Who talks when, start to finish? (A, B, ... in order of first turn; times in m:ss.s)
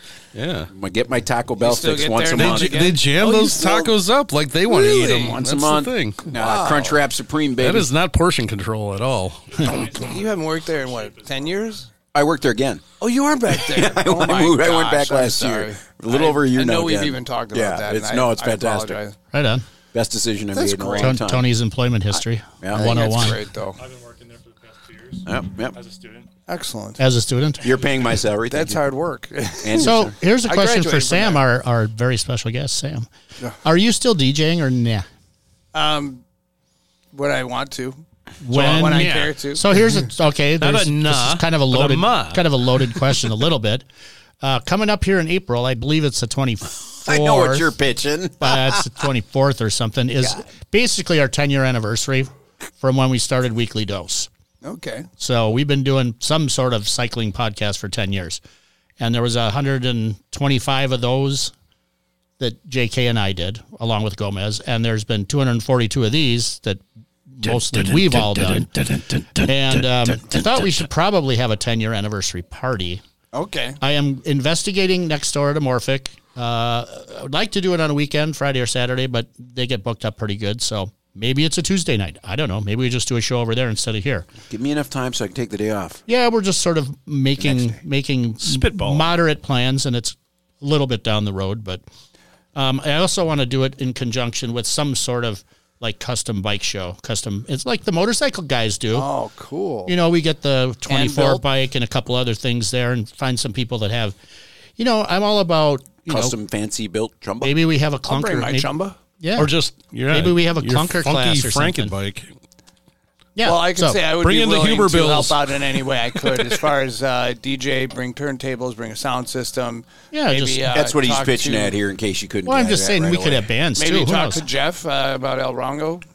0:00.3-0:00.7 A
0:00.7-0:02.9 B
0:01.6-0:03.9 C
0:02.4-0:06.3 A
0:04.7-0:07.9 B
0:06.3-0:07.0 C
0:07.6-0:09.7 A
0:09.5-0:11.6 D
0:09.6-0:11.9 C
0:12.1-0:12.9 B
0:13.0-0:19.2 C
0:13.5-0:19.0 B
0:19.3-0:19.6 E
0:19.9-0:21.4 B
0:20.5-0:21.2 C
0:21.0-0:23.4 E
0:22.6-0:23.0 B
0:22.7-0:23.8 C
0:23.8-0:26.3 D
0:25.2-0:25.8 B
0:26.5-0:27.0 C
0:27.0-0:27.8 E
0:27.6-0:28.8 B
0:28.5-0:29.9 C
0:29.6-0:30.1 B
0:29.8-0:33.1 E
0:30.5-0:31.4 C
0:33.6-0:35.0 E
0:35.7-0:36.2 C
0:37.1-0:39.6 C
0:38.4-0:43.8 E
0:38.5-0:39.4 A
0:40.6-0:42.5 A
0:44.4-0:47.7 E
0:47.0-0:48.8 B
0:48.4-0:54.3 E
0:54.6-0:55.1 C
0:55.2-0:58.4 E
0:59.0-1:01.5 E
1:02.4-1:08.7 E
1:07.4-1:10.8 A
1:09.4-1:13.0 E
1:13.3-1:13.8 C
1:13.8-1:24.3 E
1:24.5-1:26.0 B
1:26.1-1:31.8 E
1:27.4-1:27.8 B
1:28.4-1:29.0 A
1:32.5-1:39.1 E
1:38.9-1:39.9 C
1:39.8-1:44.2 E
1:40.9-1:41.4 C
1:44.8-1:46.4 E
1:46.1-1:47.5 B
1:47.4-1:49.5 E
1:48.1-1:49.0 C
1:49.4-1:52.3 A
1:50.1-1:51.9 E
1:53.4-1:54.0 E
1:53.4-2:01.7 C
1:54.1-1:55.6 A
2:00.1-2:00.8 E
2:00.7-2:03.5 B
2:02.4-2:04.4 E
2:03.8-2:06.0 C